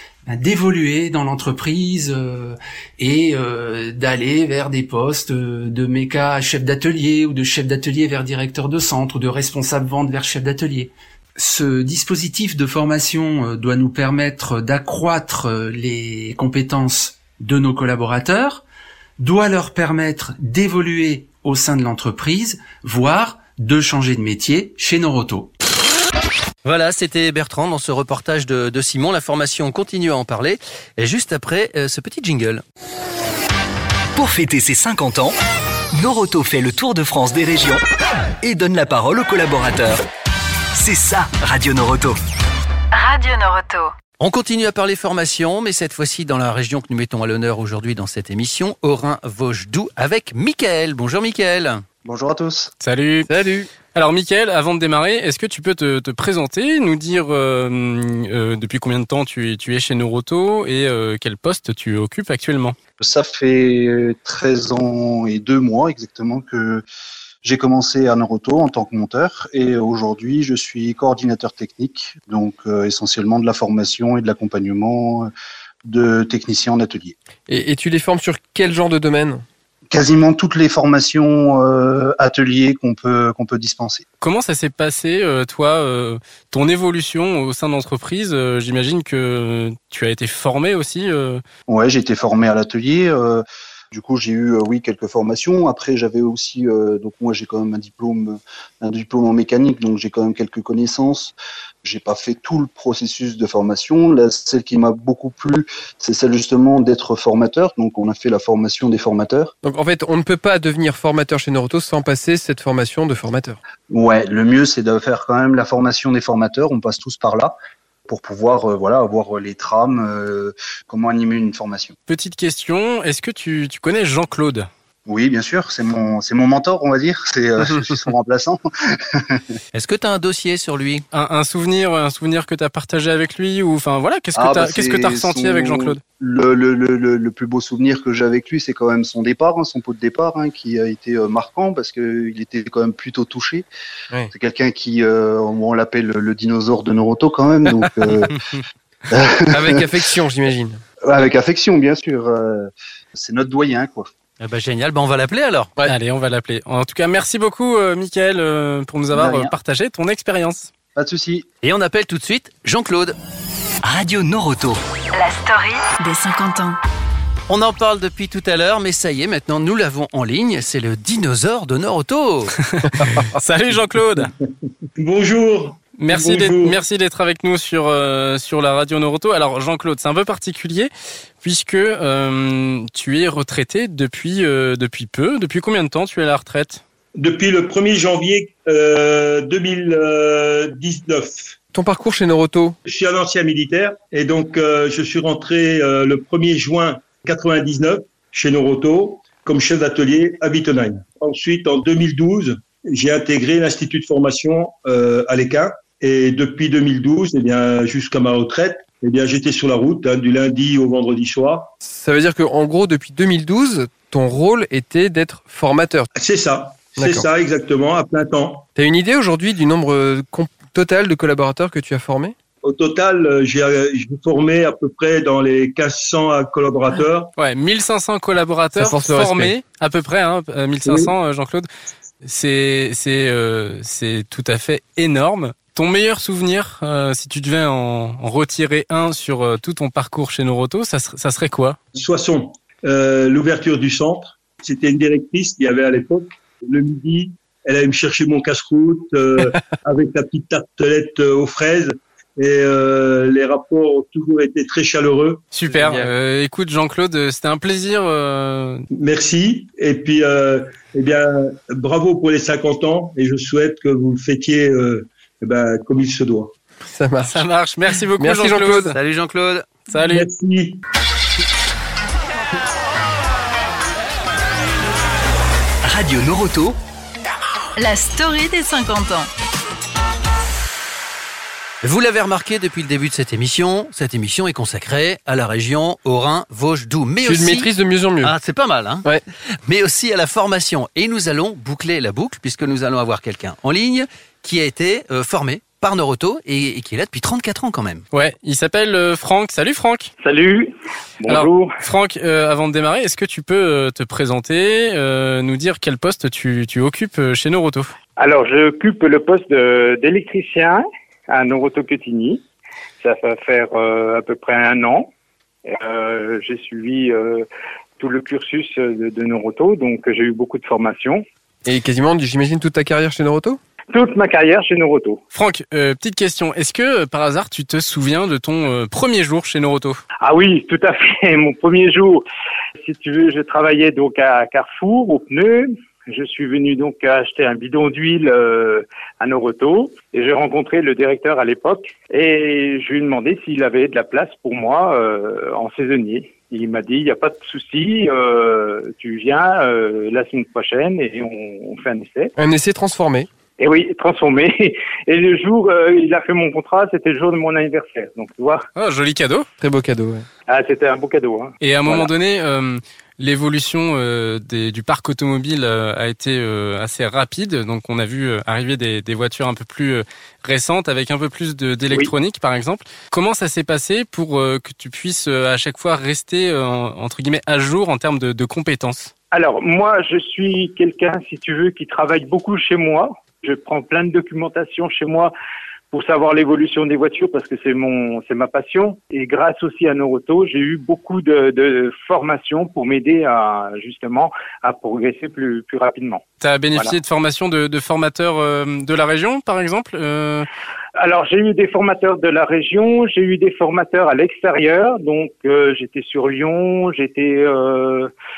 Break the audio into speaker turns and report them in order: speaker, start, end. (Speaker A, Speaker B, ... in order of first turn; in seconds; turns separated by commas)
Speaker A: 0.3-18.6, Speaker A: 19.2-25.5, Speaker B: 26.6-32.6, Speaker C: 34.1-35.4, Speaker C: 36.0-37.8, Speaker C: 38.4-40.0, Speaker C: 40.8-42.2, Speaker D: 42.9-43.9, Speaker B: 44.2-51.8, Speaker E: 52.0-52.7, Speaker F: 52.8-53.3, Speaker G: 53.3-53.7, Speaker F: 53.9-62.8, Speaker E: 63.0-66.8, Speaker E: 67.4-75.3, Speaker E: 75.8-77.2, Speaker G: 77.5-79.4, Speaker E: 79.9-84.0, Speaker F: 84.2-91.4, Speaker E: 91.7-109.5, Speaker G: 109.6-113.6, Speaker E: 113.9-122.0, Speaker F: 122.1-124.7, Speaker E: 125.1-129.6, Speaker B: 129.7-131.1, Speaker F: 131.1-136.0, Speaker E: 134.3-143.7, Speaker E: 144.3-148.3, Speaker E: 149.1-149.9, Speaker G: 149.5-150.8, Speaker E: 151.0-154.1, Speaker B: 154.4-155.7, Speaker F: 155.8-160.7, Speaker E: 159.1-159.5, Speaker E: 160.9-161.5, Speaker B: 161.6-163.2, Speaker C: 163.8-164.8, Speaker D: 165.1-166.8, Speaker B: 167.5-172.5, Speaker F: 172.7-174.3, Speaker H: 175.0-176.8, Speaker F: 175.9-186.8, Speaker H: 187.2-191.6, Speaker G: 191.7-192.8, Speaker H: 192.8-211.7, Speaker G: 211.8-216.1, Speaker H: 216.2-218.7, Speaker G: 217.0-217.3, Speaker G: 218.8-222.3, Speaker H: 222.6-227.3, Speaker F: 227.4-231.7, Speaker G: 228.8-229.6, Speaker H: 230.9-231.1, Speaker F: 232.2-241.8, Speaker H: 241.9-255.4, Speaker F: 255.5-258.9, Speaker G: 255.7-256.1, Speaker H: 258.9-266.6, Speaker G: 266.9-267.5, Speaker F: 267.3-269.0, Speaker G: 268.2-268.9, Speaker B: 268.9-269.7, Speaker F: 269.9-270.3, Speaker H: 270.0-270.8, Speaker C: 275.8-276.8, Speaker D: 277.8-279.3, Speaker B: 281.8-287.7, Speaker G: 287.2-288.4, Speaker B: 288.2-289.1, Speaker B: 289.7-298.0, Speaker F: 298.1-300.1, Speaker I: 300.2-301.8, Speaker F: 301.3-307.9, Speaker I: 308.2-312.4, Speaker I: 313.0-315.1, Speaker I: 315.7-317.5, Speaker I: 318.0-321.2, Speaker G: 321.6-323.6, Speaker I: 323.9-325.2, Speaker F: 325.3-330.0, Speaker I: 330.2-332.2, Speaker I: 332.8-352.3, Speaker G: 352.4-353.3, Speaker I: 353.6-358.7, Speaker F: 358.8-359.5, Speaker G: 359.6-360.3, Speaker I: 360.5-362.1, Speaker F: 361.6-379.1, Speaker I: 379.3-385.3, Speaker I: 385.9-396.9, Speaker F: 396.4-400.5, Speaker I: 401.0-408.1